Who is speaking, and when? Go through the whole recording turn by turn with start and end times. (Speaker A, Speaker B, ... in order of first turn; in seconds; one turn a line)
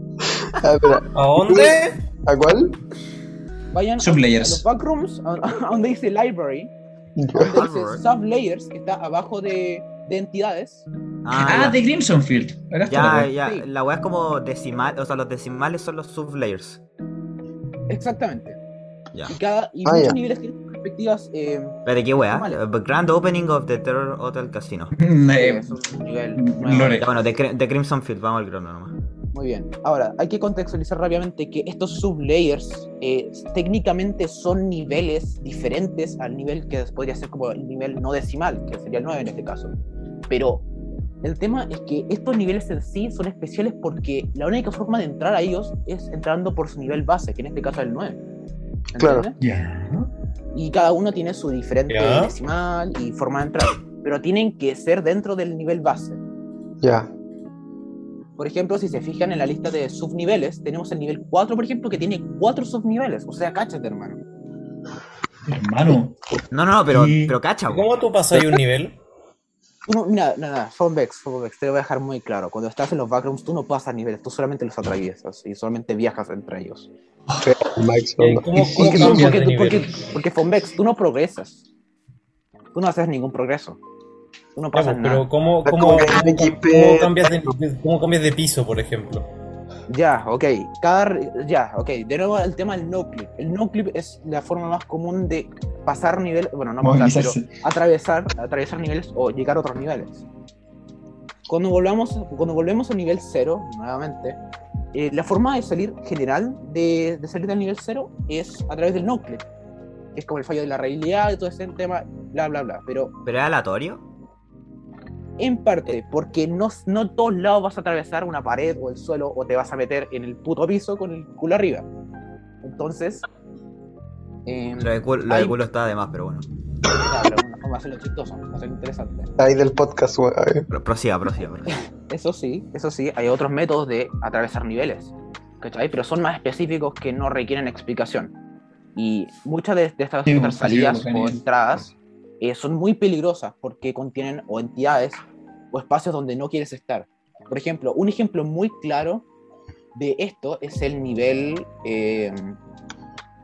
Speaker A: 0.4-1.8
Speaker B: 1.1-1.9
Speaker A: 2.3-2.8
Speaker C: 3.7-6.7
Speaker D: 4.0-4.6
Speaker A: 7.2-7.6
Speaker C: 7.3-10.8
Speaker E: 7.5-8.0
Speaker E: 11.2-11.8
Speaker D: 11.3-13.3
Speaker E: 12.9-16.8
Speaker C: 13.4-13.6
Speaker C: 17.9-18.6
Speaker C: 19.3-22.6
Speaker A: 19.9-20.2
Speaker E: 21.9-24.9
Speaker D: 25.0-25.8
Speaker C: 25.4-27.1
Speaker D: 26.4-27.1
Speaker E: 27.0-28.9
Speaker C: 29.3-39.7
Speaker C: 40.3-40.6
Speaker C: 41.2-48.2
Speaker C: 48.9-49.4
Speaker A: 49.0-49.3
Speaker D: 49.4-50.1
Speaker C: 50.5-56.2
Speaker B: 51.9-52.3
Speaker A: 56.8-57.1
Speaker C: 58.4-64.2
Speaker D: 65.5-66.2
Speaker E: 66.5-67.9
Speaker D: 66.9-67.4
Speaker B: 67.7-68.9
Speaker A: 68.3-68.6
Speaker C: 69.9-76.9
Speaker A: 77.4-79.2
Speaker B: 78.2-79.9
Speaker D: 78.6-79.4
Speaker C: 78.7-81.6
Speaker C: 82.7-83.8
Speaker C: 84.5-85.2
Speaker B: 84.7-89.3
Speaker A: 85.6-87.5
Speaker C: 89.9-100.2
Speaker D: 96.8-97.5
Speaker C: 101.5-104.4
Speaker C: 104.9-109.4
Speaker C: 110.1-113.1
Speaker E: 113.2-114.0
Speaker C: 115.4-121.9
Speaker C: 122.6-123.2
Speaker C: 124.5-125.5
Speaker E: 124.8-126.5
Speaker C: 127.0-129.3
Speaker A: 129.4-130.7
Speaker E: 130.7-131.8
Speaker C: 132.0-138.3
Speaker C: 138.9-149.2
Speaker D: 140.2-141.4
Speaker C: 149.9-152.6